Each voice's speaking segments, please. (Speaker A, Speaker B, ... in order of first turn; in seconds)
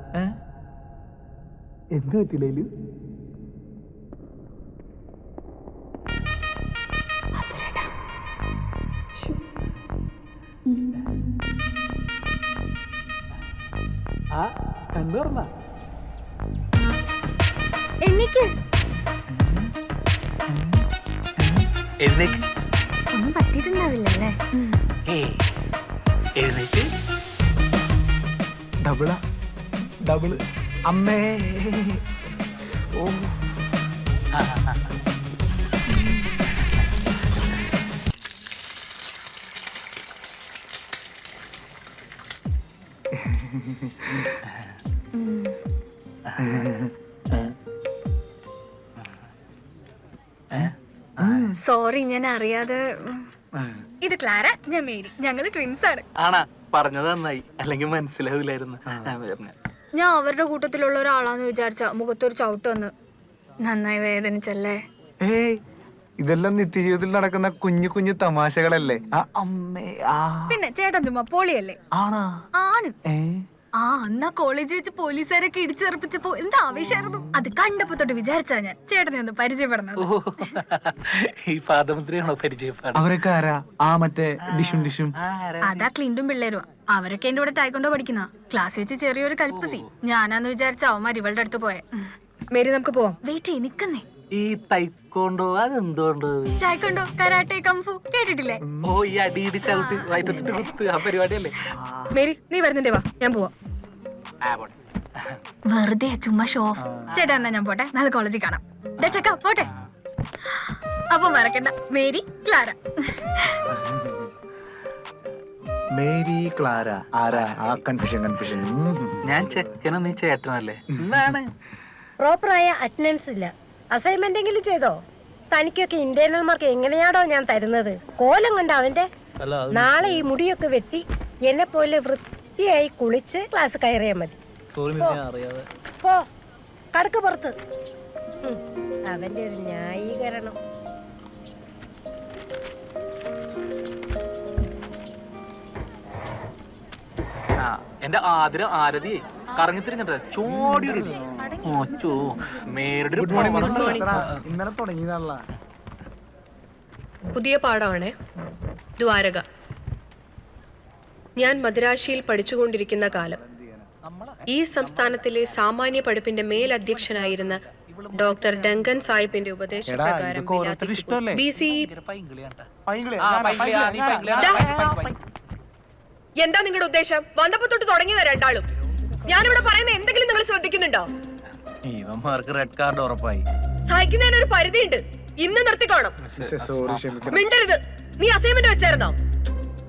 Speaker A: 1.9-2.7, 14.3-15.5, 22.0-22.4, 25.1-25.4, 26.4-26.9, 34.4-34.9, 46.3-46.7, 50.5-51.5, 56.2-59.5, 80.0-83.1, 84.5-85.9, 89.5-89.8, 94.3-96.6, 98.8-101.5, 104.4-105.4, 107.1-107.5, 109.0-109.9, 116.8-117.8, 119.2-121.5, 147.6-151.1, 151.6-154.4, 164.0-165.7, 166.5-169.3, 171.6-172.7, 173.2-175.2, 186.2-187.4
Speaker B: 7.3-7.9, 10.7-11.1, 18.0-18.5, 23.1-24.8, 45.1-45.5, 51.6-53.2, 54.0-56.0, 60.0-62.9, 63.6-64.8, 70.5-71.8, 72.6-72.9, 73.8-80.6, 85.6-92.0, 93.2-94.0, 96.6-98.6, 99.6-100.6, 105.7-109.7, 110.7-113.6, 151.2-152.8
Speaker C: 19.3-19.7, 20.5-20.9, 21.4-21.7, 28.8-29.2, 30.0-32.0, 32.7-33.7, 43.1-44.4, 46.4-47.5, 50.5-51.6, 53.5-53.8, 65.2-65.6, 66.2-70.6, 71.9-72.3, 73.1-73.4, 82.9-85.1, 98.6-99.0, 100.2-100.5, 101.7-102.2, 106.8-107.2, 113.7-114.3, 116.0-119.4, 121.0-121.3, 150.4-151.6, 153.2-155.4, 163.0-163.9, 169.8-171.4, 172.8-174.6, 186.3-187.4
Speaker D: 92.5-93.2, 102.1-103.5, 153.3-154.1, 157.3-158.1, 159.0-159.4, 161.4-163.4, 164.5-171.9, 174.4-174.6, 176.4-178.7, 179.2-181.1, 183.9-186.1, 187.3-189.2
Speaker E: 122.2-125.0, 125.5-129.1, 129.7-134.3, 134.9-135.2, 136.9-137.5, 138.4-140.6
Speaker F: 129.4-130.3, 134.7-135.7, 173.3-175.1, 181.8-183.4